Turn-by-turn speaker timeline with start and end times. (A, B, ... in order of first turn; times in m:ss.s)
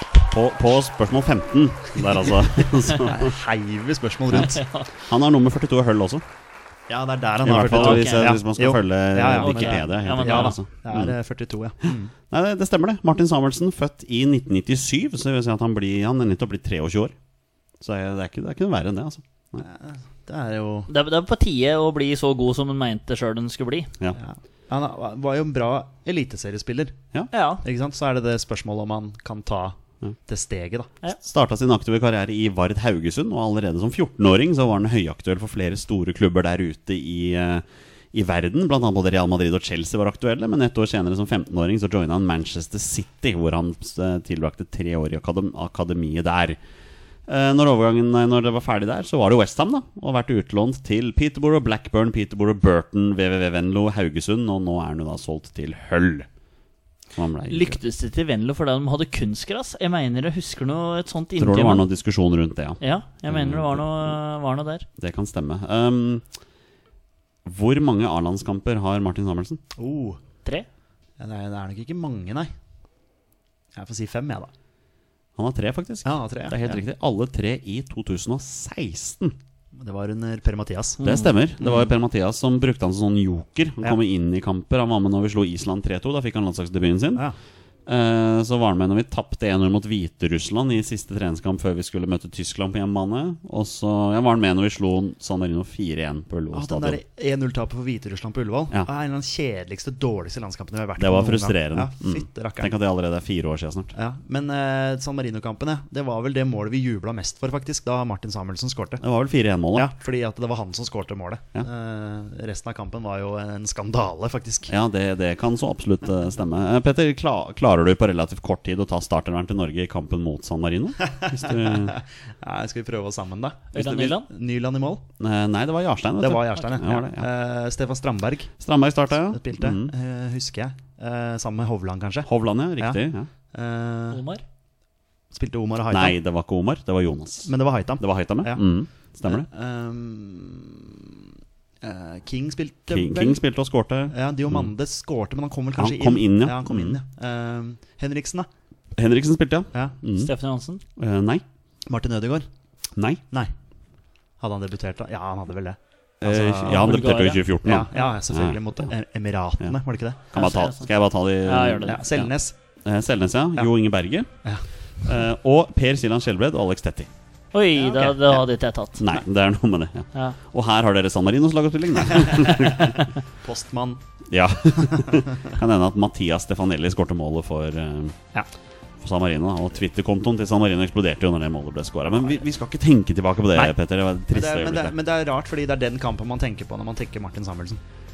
0:00.3-0:03.4 A
0:03.0-0:04.7 B
0:04.4-0:04.9 C
0:05.1-0:06.2 A
0:06.9-0:12.1 B
0:07.4-0:11.1 A
0:07.7-0:08.3 C
0:09.4-0:10.6 C
0:12.3-0:17.1 A
0:17.8-0:19.6 A
0:19.6-0:20.9 B
0:20.9-0:23.9 C
0:24.2-0:27.0 B
0:27.3-0:27.6 C
0:27.6-0:31.0 B
0:31.2-0:46.6 A
0:47.3-0:56.3 A
0:57.2-0:57.8 A
0:57.5-1:01.9 C
1:01.4-1:04.2 A
1:02.8-1:04.9 C
1:05.0-1:06.2 A
1:07.4-1:09.6 A
1:09.8-1:10.2 B
1:11.2-1:12.5 B
1:13.8-1:14.5 B
1:15.4-1:19.4 A
1:16.0-1:16.8 B
1:19.8-1:21.0 B
1:21.0-1:21.3 C
1:21.0-1:27.2 A
1:21.6-1:21.9 B
1:27.9-1:37.0 A
1:36.5-1:42.7 B
1:41.0-1:43.9 A
1:44.0-1:49.0 B
1:49.0-1:49.9 A
1:49.7-1:54.7 B
1:54.7-2:01.9 A
2:01.0-2:05.0 B
2:03.7-2:04.3 C
2:05.2-2:07.2 A
2:06.2-2:08.6 B
2:08.6-2:09.9 A
2:09.2-2:13.0 B
2:12.3-2:13.3 A
2:13.5-2:14.2 B
2:14.1-2:14.4 C
2:15.3-2:16.2 B
2:15.9-2:19.5 A
2:17.4-2:18.6 B
2:19.3-2:21.2 B
2:21.8-2:23.4 B
2:22.9-2:24.7 A
2:24.1-2:28.5 B
2:25.8-2:27.0 A
2:29.0-2:30.3 A
2:30.2-2:30.8 C
2:31.0-2:31.4 A
2:31.9-2:32.5 B
2:33.0-2:33.2 A
2:34.4-2:40.3 B
2:36.2-2:38.6 A
2:36.7-2:37.4 C
2:40.3-2:42.3 A
2:40.4-2:40.9 C
2:41.4-2:42.0 C
2:41.8-2:42.5 B
2:42.8-2:44.3 A
2:45.0-2:47.1 A
2:47.5-2:49.0 C
2:47.8-2:48.4 B
2:49.0-2:53.1 A
2:52.3-2:54.0 B
2:54.3-2:58.2 A
2:54.8-2:55.3 B
2:59.0-3:04.9 A
3:04.3-3:07.8 B